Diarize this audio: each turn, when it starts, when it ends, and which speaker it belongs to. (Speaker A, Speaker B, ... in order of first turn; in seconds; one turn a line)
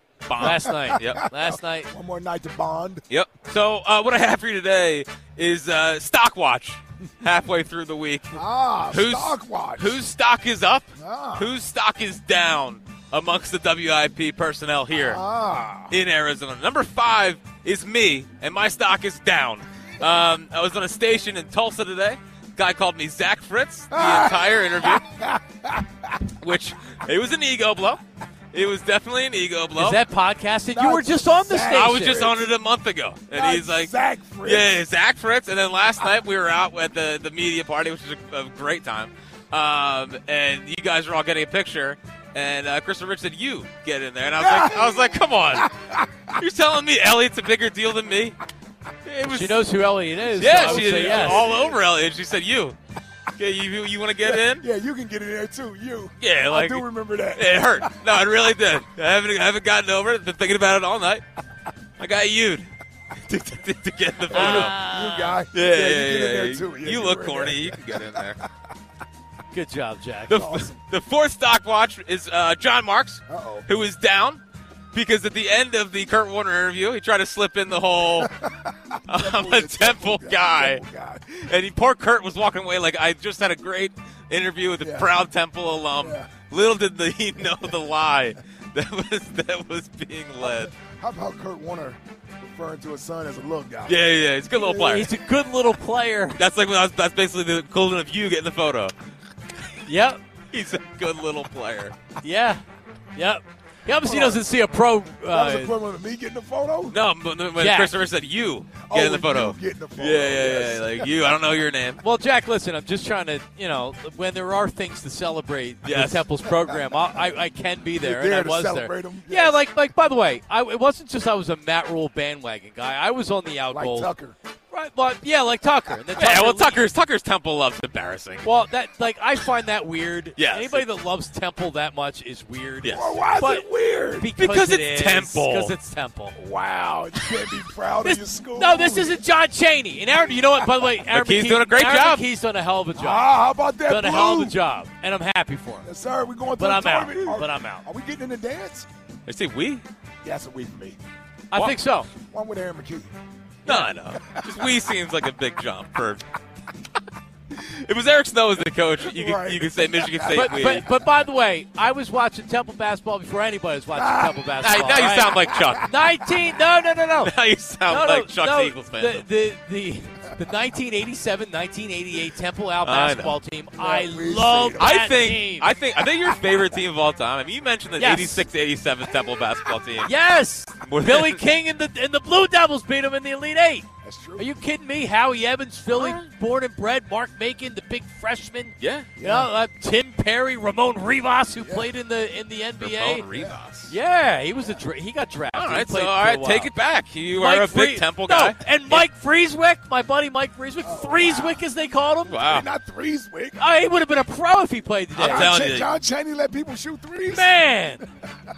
Speaker A: 0.2-1.2
Speaker B: 0.4-3.0
Speaker C: 0.4-1.9
Speaker A: 3.1-15.2
Speaker B: 8.3-10.0
Speaker B: 11.0-11.5
Speaker B: 14.9-16.0
Speaker A: 15.9-25.1
Speaker B: 23.9-26.2
Speaker A: 26.4-28.0
Speaker A: 28.5-30.0
Speaker C: 29.8-32.3
Speaker B: 30.7-32.5
Speaker A: 31.6-45.7
Speaker B: 33.3-34.7
Speaker B: 44.4-46.4
Speaker A: 46.3-48.4
Speaker A: 49.0-49.6
Speaker C: 49.3-51.4
Speaker A: 50.3-52.8
Speaker B: 50.4-51.8
Speaker A: 53.4-54.6
Speaker B: 54.2-57.9
Speaker A: 56.2-61.2
Speaker A: 62.0-62.7
Speaker A: 63.2-64.8
Speaker B: 64.3-68.2
Speaker C: 64.3-65.4
Speaker A: 65.5-68.4
Speaker C: 69.5-70.5
Speaker A: 70.3-74.4
Speaker B: 70.3-70.8
Speaker B: 73.3-73.7
Speaker A: 74.9-78.3
Speaker B: 78.2-81.3
Speaker A: 79.1-90.7
Speaker B: 84.8-85.1
Speaker B: 86.0-86.3
Speaker B: 90.4-94.0
Speaker A: 93.9-95.1
Speaker B: 94.5-95.0
Speaker C: 94.6-96.4
Speaker A: 96.4-98.9
Speaker C: 99.9-100.2
Speaker A: 100.5-102.0
Speaker C: 102.2-102.6
Speaker C: 103.2-105.7
Speaker B: 104.0-104.4
Speaker B: 105.3-107.0
Speaker A: 106.9-112.0
Speaker C: 107.6-107.9
Speaker B: 108.9-111.3
Speaker C: 112.0-124.1
Speaker A: 115.8-116.2
Speaker B: 118.0-119.6
Speaker B: 123.7-124.4
Speaker C: 124.7-126.8
Speaker A: 126.2-128.5
Speaker C: 128.4-133.7
Speaker A: 130.4-130.8
Speaker A: 132.8-133.1
Speaker B: 132.9-134.3
Speaker C: 134.2-136.4
Speaker A: 134.4-135.7
Speaker B: 136.3-139.2
Speaker C: 138.0-143.3
Speaker A: 141.1-142.2
Speaker B: 142.9-144.6
Speaker C: 143.9-145.9
Speaker B: 145.8-148.9
Speaker C: 146.6-147.8
Speaker A: 149.3-149.8
Speaker B: 150.2-151.0
Speaker C: 151.5-152.1
Speaker B: 152.2-153.1
Speaker C: 153.7-153.9
Speaker A: 153.7-156.2
Speaker B: 154.2-154.6
Speaker A: 157.5-160.8
Speaker B: 159.0-160.8
Speaker C: 160.3-167.3
Speaker B: 163.9-164.4
Speaker A: 164.6-165.9
Speaker B: 165.4-165.8
Speaker A: 167.2-169.2
Speaker C: 167.9-175.7
Speaker A: 172.8-173.4
Speaker B: 173.8-174.9
Speaker A: 174.8-180.1
Speaker C: 178.0-178.5
Speaker C: 180.1-183.9
Speaker A: 180.8-181.4
Speaker B: 184.0-184.4
Speaker C: 184.4-193.3
Speaker A: 188.8-189.1
Speaker B: 189.2-189.5
Speaker B: 191.6-191.9
Speaker A: 192.8-193.9
Speaker B: 193.3-193.6
Speaker C: 193.9-196.7
Speaker A: 195.5-199.1
Speaker C: 197.4-202.5
Speaker B: 200.8-201.6
Speaker A: 202.3-202.7
Speaker B: 202.4-203.6
Speaker C: 203.6-205.5
Speaker A: 205.2-205.9
Speaker B: 205.2-207.5
Speaker C: 207.3-208.1